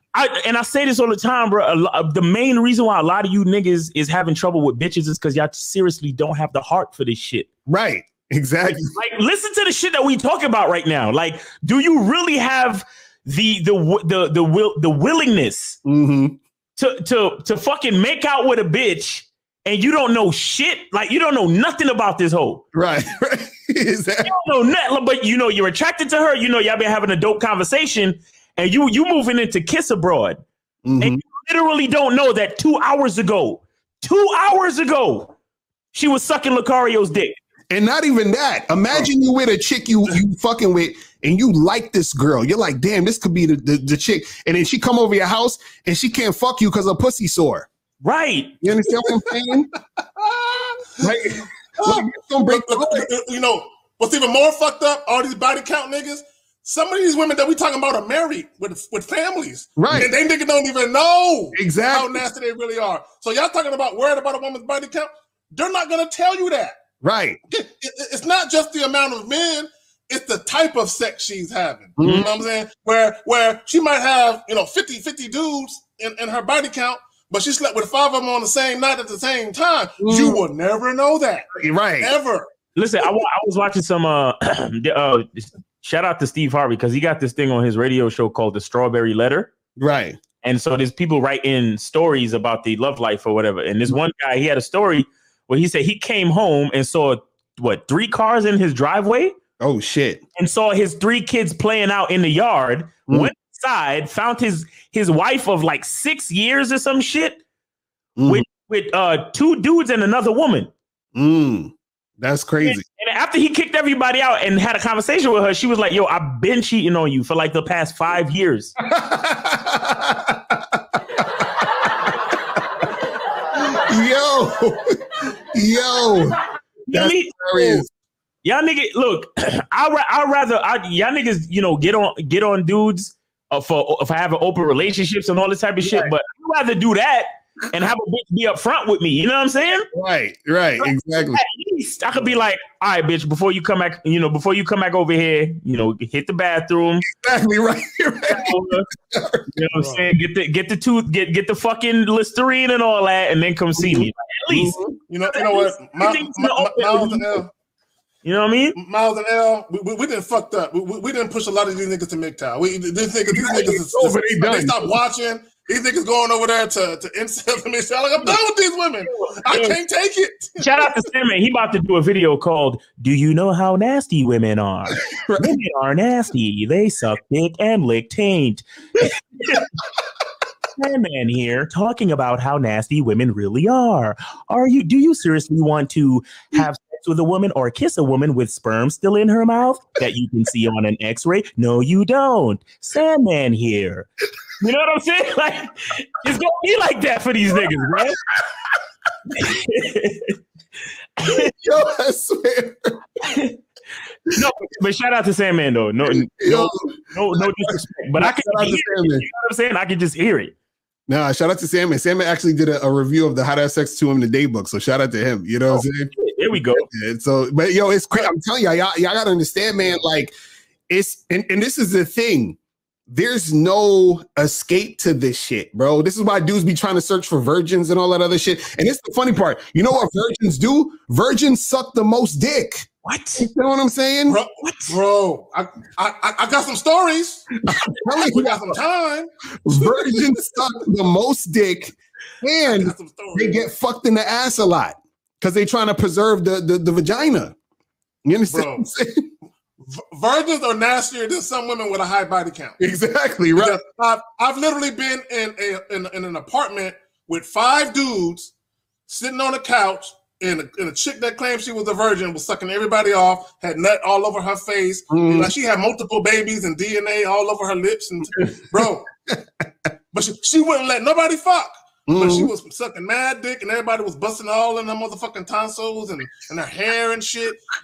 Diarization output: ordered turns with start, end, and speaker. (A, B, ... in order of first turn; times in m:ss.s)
0:00.1-0:07.5 A
0:07.7-0:08.9 B
0:08.9-0:15.8 A
0:15.8-0:16.4 B
0:16.8-0:22.6 A
0:22.7-0:24.3 B
0:24.2-0:30.4 A
0:30.8-0:31.2 B
0:31.0-0:35.3 A
0:35.9-0:37.4 A
0:37.7-0:47.7 B
0:48.0-0:48.6 A
0:48.6-0:49.7 B
0:50.0-0:51.1 C
0:51.0-0:53.1 B
0:51.8-1:06.8 C
0:59.8-1:00.1 B
1:01.5-1:02.2 B
1:07.0-1:07.4 B
1:07.5-1:21.5 C
1:12.0-1:12.3 B
1:12.0-1:12.3 A
1:20.0-1:20.4 B
1:21.5-1:22.1 B
1:22.0-1:22.5 C
1:22.8-1:29.5 A
1:29.8-1:30.2 B
1:30.4-1:39.3 A
1:39.6-1:40.2 B
1:40.4-1:47.4 A
1:48.2-1:48.4 B
1:48.2-1:50.7 A
1:51.1-1:52.8 B
1:52.6-1:58.7 A
1:58.8-2:02.1 B
2:03.5-2:06.4 B
2:06.9-2:07.8 A
2:06.9-2:07.9 B
2:08.4-2:19.9 A
2:15.8-2:16.1 B
2:19.9-2:21.4 B
2:20.8-2:27.0 A
2:27.1-2:29.5 B
2:28.3-2:28.9 A
2:29.5-2:34.8 A
2:29.8-2:30.0 C
2:33.8-2:35.0 B
2:35.1-2:37.5 C
2:35.3-2:37.4 A
2:38.2-2:38.8 A
2:38.8-2:50.9 C
2:43.3-2:45.0 B
2:49.1-2:49.8 A
2:50.6-2:59.6 A
2:55.1-2:55.6 B
3:00.8-3:18.2 A
3:19.3-3:20.4 A
3:21.2-3:21.5 A
3:21.2-3:23.0 B
3:23.2-3:23.6 A
3:24.2-3:30.5 A
3:26.1-3:29.2 B
3:31.1-3:36.1 B
3:35.7-3:36.9 A
3:36.7-3:40.3 B
3:40.9-3:42.6 B
3:43.1-3:54.4 B
3:53.0-3:53.5 A
3:54.3-3:57.4 C
3:54.6-3:55.0 A
3:57.6-3:58.8 B
3:58.2-4:00.3 C
3:59.6-4:07.6 B
4:02.7-4:03.6 C
4:08.2-4:09.3 B
4:08.5-4:08.8 C
4:09.8-4:12.8 C
4:12.8-4:13.8 B
4:13.5-4:18.5 C
4:19.1-4:29.1 C
4:25.1-4:25.5 B
4:30.1-4:37.6 C
4:32.1-4:32.5 B